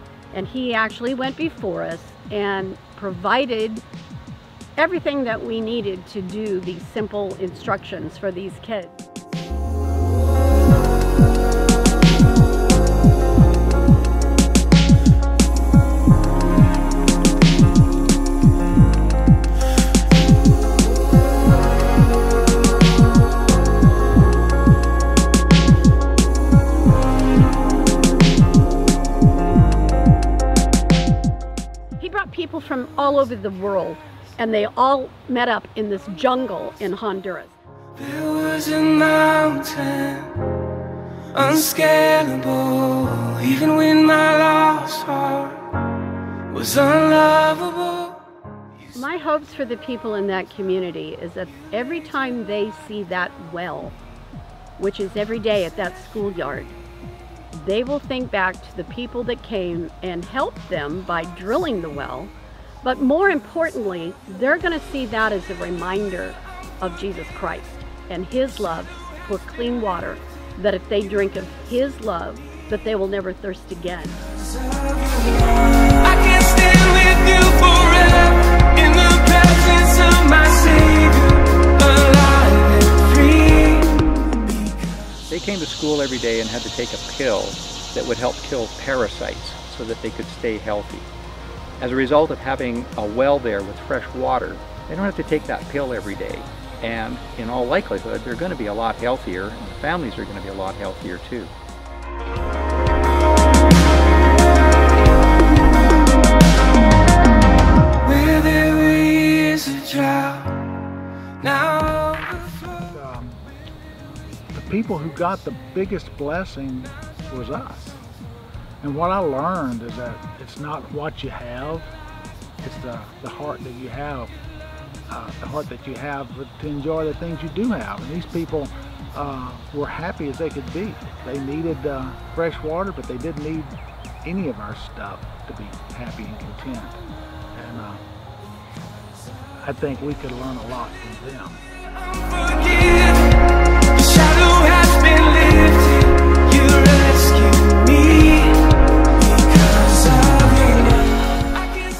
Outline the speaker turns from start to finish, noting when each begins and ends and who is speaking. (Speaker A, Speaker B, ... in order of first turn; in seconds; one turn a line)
Speaker A: 0.3-3.8
Speaker A: 4.8-9.0
Speaker A: 32.0-37.5
Speaker B: 38.0-40.4
Speaker B: 41.3-45.6
Speaker B: 46.5-48.2
Speaker A: 48.9-54.0
Speaker A: 54.8-56.7
Speaker A: 57.5-74.2
Speaker B: 75.1-84.5
Speaker C: 85.3-91.1
Speaker C: 91.8-101.5
Speaker B: 108.0-110.7
Speaker B: 111.4-112.5
Speaker D: 112.7-113.4
Speaker D: 114.5-118.0
Speaker D: 118.8-121.9
Speaker D: 122.6-124.3
Speaker D: 125.1-137.0
Speaker D: 137.5-138.0
Speaker D: 139.6-141.6
Speaker B: 142.1-151.7